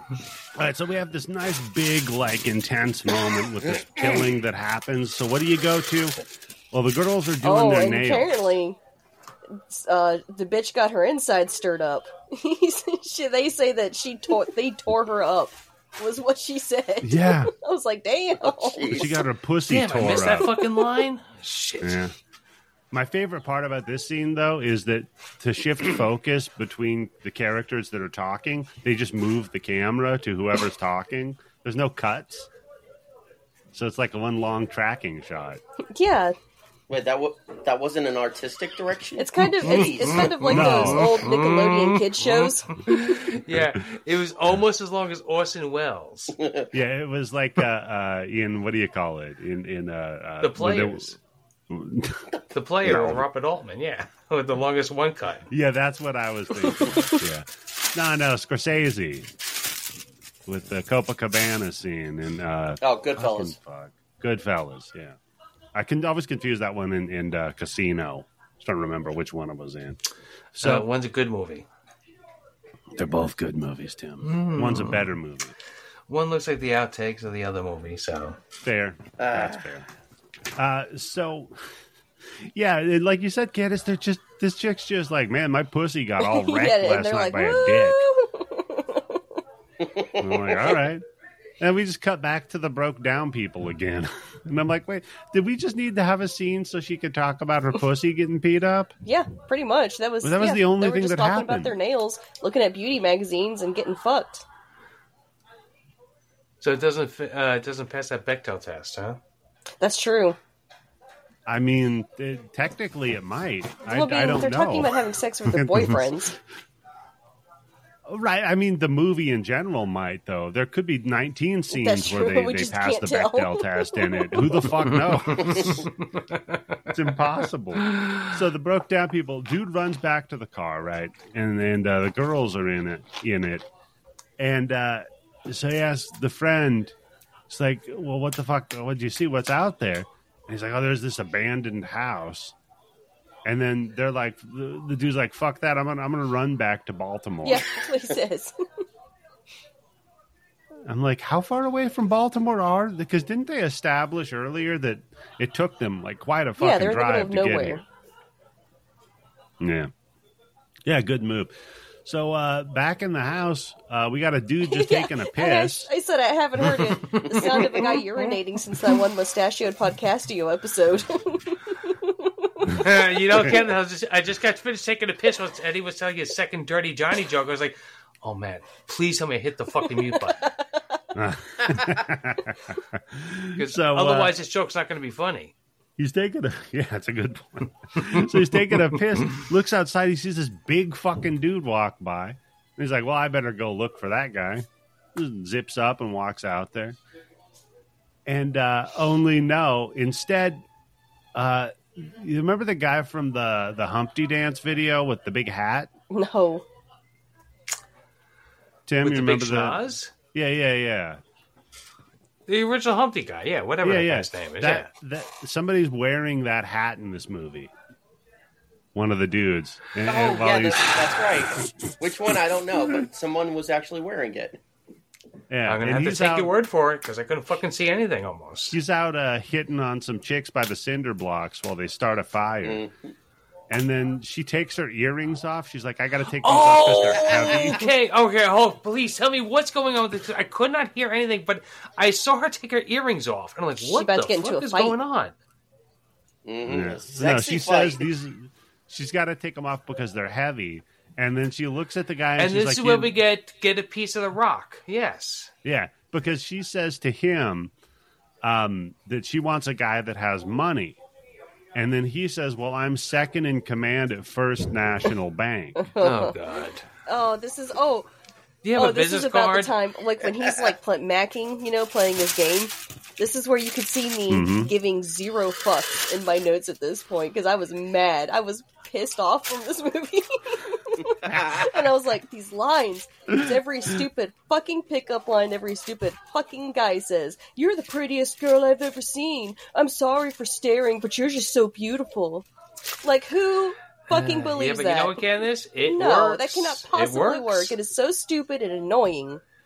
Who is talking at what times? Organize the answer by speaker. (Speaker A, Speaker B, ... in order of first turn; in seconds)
Speaker A: 0.6-6.2, 6.7-8.4, 17.0-17.5, 18.9-20.6, 21.8-22.1, 22.9-32.5, 33.7-35.6, 40.4-41.2, 46.7-51.1, 51.7-53.2, 55.5-59.3, 60.5-65.2, 65.8-70.0, 70.6-70.9, 73.0-75.5, 78.6-79.9, 80.6-81.5, 82.5-88.0, 90.2-91.0, 91.6-98.9, 100.2-101.8, 111.5-115.0, 115.5-116.1, 118.1-125.9, 126.9-133.7, 134.4-136.9, 137.5-142.5, 143.4-147.7, 150.9-157.8, 159.6-159.9, 160.8-161.5, 162.1-165.9, 181.1-184.3, 186.0-197.0, 198.3-200.7, 201.3-205.9, 208.9-209.8, 210.3-211.2, 213.8-217.7, 218.9-221.2, 225.5-226.5, 228.7-232.8, 233.7-237.9, 246.7-253.2, 255.6-257.7, 258.4-261.0, 261.8-265.9, 274.3-274.7
Speaker B: 7.4-8.8, 9.5-19.1, 35.9-36.4, 39.2-42.7, 86.2-89.2, 99.0-104.4, 109.8-110.4, 113.9-116.3, 121.7-124.7, 147.4-148.6, 156.6-157.8, 164.6-172.8, 206.1-206.7, 243.8-244.9, 265.8-266.3, 267.1-268.1, 268.8-292.5, 293.0-295.3, 295.8-299.4
Speaker C: 18.5-19.2, 36.9-40.7, 46.4-46.7, 62.8-63.5, 79.2-79.6, 89.8-90.6, 220.1-224.6, 232.6-233.1, 246.4-248.1, 281.2-281.8
Speaker D: 19.7-22.0, 39.8-46.4, 50.4-51.2, 52.5-55.5, 70.5-71.7, 74.2-75.1, 76.1-78.4, 106.6-109.2, 124.8-127.0, 127.9-128.3, 166.6-169.0, 172.7-180.5, 183.6-185.5, 209.0-210.1, 212.5-214.9, 225.7-228.8, 236.4-245.3, 252.4-255.5, 266.0-266.9, 268.6-269.7, 294.1-297.7